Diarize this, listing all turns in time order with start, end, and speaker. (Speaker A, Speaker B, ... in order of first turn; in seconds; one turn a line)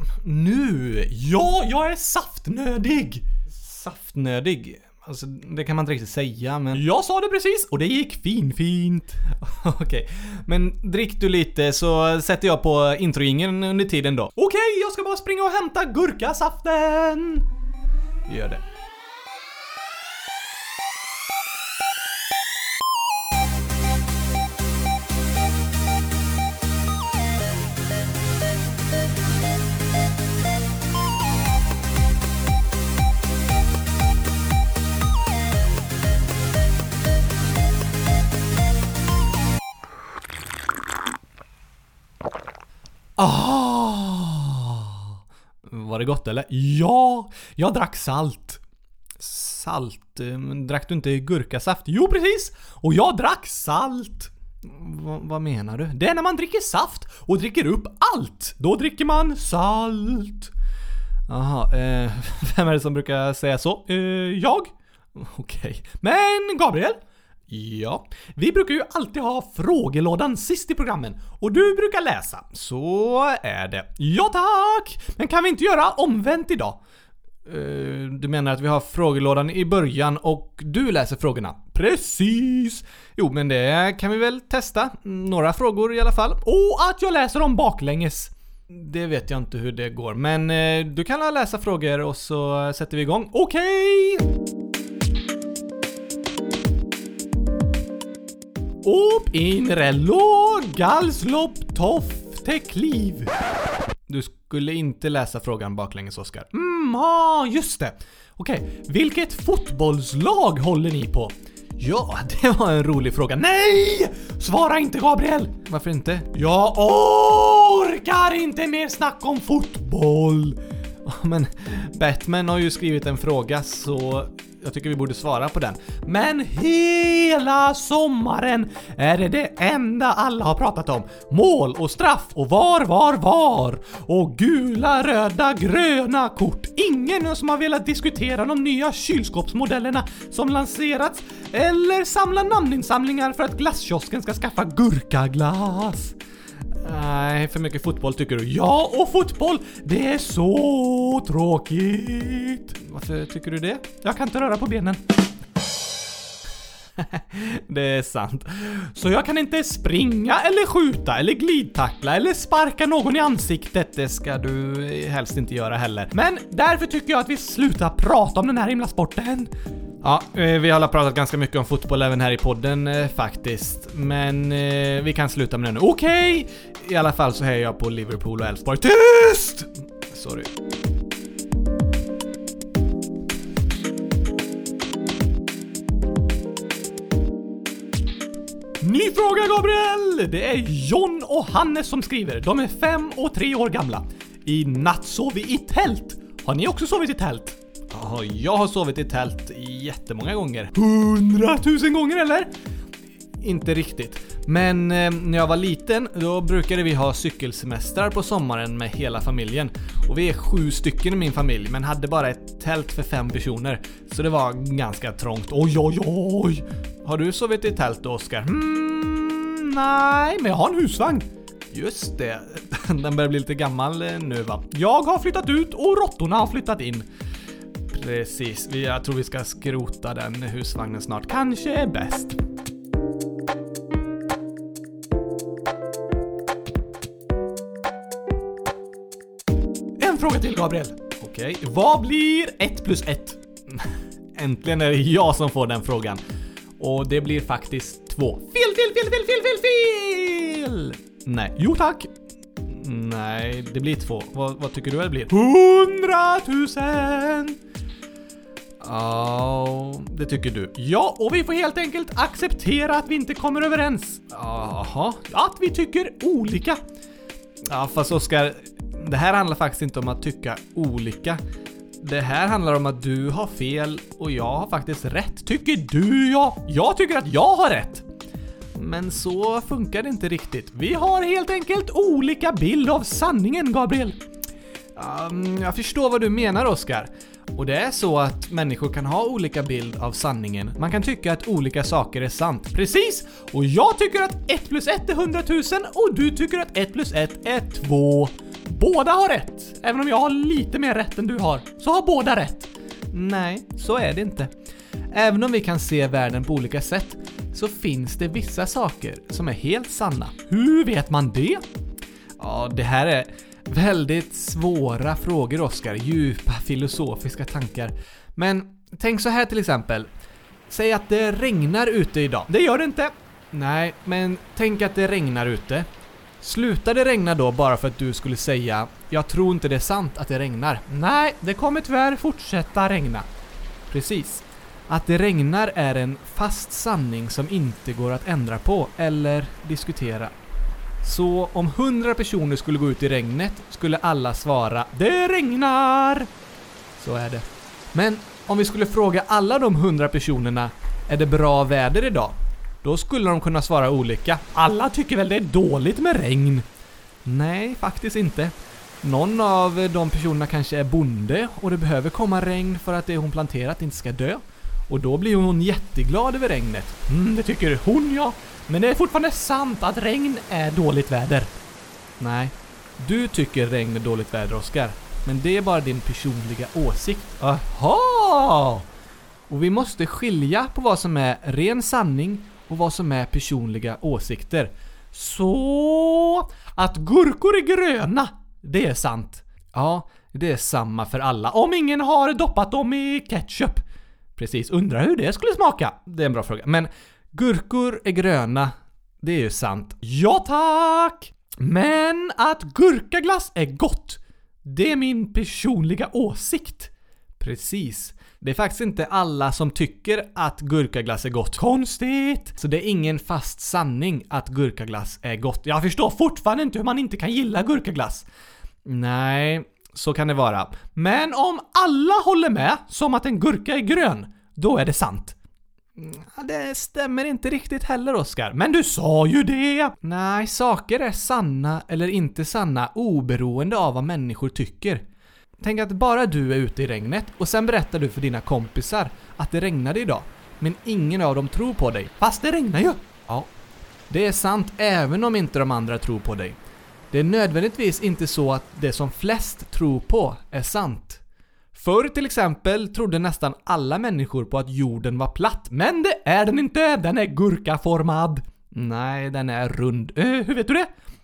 Speaker A: 0.2-1.3
Speaker B: 1.3-3.2
Speaker A: 3.5-6.9
Speaker B: 6.8-9.2
Speaker A: 9.3-14.4
Speaker B: 14.4-17.5
Speaker A: 18.3-18.6
Speaker B: 43.2-44.8
Speaker A: 45.7-46.5
Speaker B: 46.5-48.6
Speaker A: 49.2-51.8
Speaker B: 51.6-54.3
Speaker A: 54.6-56.0
Speaker B: 56.0-60.5
Speaker A: 61.3-63.9
Speaker B: 63.9-64.7
Speaker A: 65.2-66.0
Speaker B: 66.0-67.0
Speaker B: 67.5-72.5
Speaker A: 72.4-74.0
Speaker B: 73.8-76.8
Speaker A: 77.5-86.5
Speaker B: 86.5-88.3
Speaker A: 88.7-93.5
Speaker B: 93.5-94.2
Speaker B: 98.8-103.3
Speaker A: 104.1-106.5
Speaker B: 106.5-111.3
Speaker A: 111.8-113.4
Speaker B: 113.2-115.6
Speaker A: 115.6-116.4
Speaker B: 116.4-120.6
Speaker A: 121.0-126.0
Speaker B: 125.9-146.1
Speaker A: 146.8-148.5
Speaker B: 148.4-152.8
Speaker A: 152.8-154.0
Speaker B: 153.9-155.0
Speaker A: 157.0-158.9
Speaker B: 159.0-163.9
Speaker A: 163.8-166.2
Speaker B: 166.1-169.5
Speaker A: 170.0-180.5
Speaker B: 188.8-197.6
Speaker A: 197.9-202.5
Speaker A: 203.4-215.8
Speaker B: 215.8-216.6
Speaker A: 217.0-218.7
Speaker B: 218.7-221.3
Speaker A: 221.7-224.8
Speaker B: 224.8-227.1
Speaker A: 227.9-231.5
Speaker B: 231.5-232.3
Speaker B: 240.0-243.4
Speaker A: 241.2-241.6
Speaker A: 243.7-246.2
Speaker A: 246.8-248.6
Speaker B: 248.6-251.0
Speaker A: 251.3-251.6
Speaker B: 251.6-252.1
Speaker A: 252.7-255.4
Speaker B: 255.3-257.6
Speaker A: 258.8-260.8
Speaker B: 260.8-264.3
Speaker A: 264.3-265.3
Speaker B: 265.3-266.8
Speaker A: 267.7-271.4
Speaker A: 272.0-275.6
Speaker B: 275.5-278.0
Speaker A: 278.8-281.0
Speaker B: 281.0-284.2
Speaker A: 285.0-292.8
Speaker B: 292.8-302.7
Speaker A: 303.1-304.5
Speaker A: 305.1-310.5
Speaker B: 310.5-311.6
Speaker A: 312.4-320.1
Speaker A: 320.7-322.6
Speaker B: 322.5-323.1
Speaker A: 323.5-325.9
Speaker A: 326.4-331.1
Speaker B: 331.1-333.2
Speaker A: 333.9-340.3
Speaker A: 341.0-345.6
Speaker B: 345.4-346.2
Speaker A: 347.0-354.6
Speaker B: 354.6-356.6
Speaker A: 357.3-367.1
Speaker B: 367.1-371.5
Speaker A: 372.2-378.8
Speaker B: 378.4-378.7
Speaker A: 379.5-385.3
Speaker B: 385.2-388.8
Speaker A: 388.6-391.6
Speaker B: 391.6-393.8
Speaker A: 394.4-394.9
Speaker B: 394.4-395.9
Speaker A: 395.8-400.1
Speaker B: 400.1-406.9
Speaker A: 407.4-411.7
Speaker B: 411.6-412.6
Speaker A: 412.5-415.7
Speaker B: 415.6-418.3
Speaker A: 418.9-421.1
Speaker B: 421.0-425.4
Speaker A: 426.0-428.6
Speaker B: 428.6-429.9
Speaker A: 429.9-435.0
Speaker A: 435.6-442.2
Speaker B: 442.2-443.0
Speaker A: 444.1-446.6
Speaker A: 447.1-451.2
Speaker A: 451.7-456.0
Speaker B: 455.9-458.4
Speaker A: 458.7-460.7
Speaker B: 460.4-460.8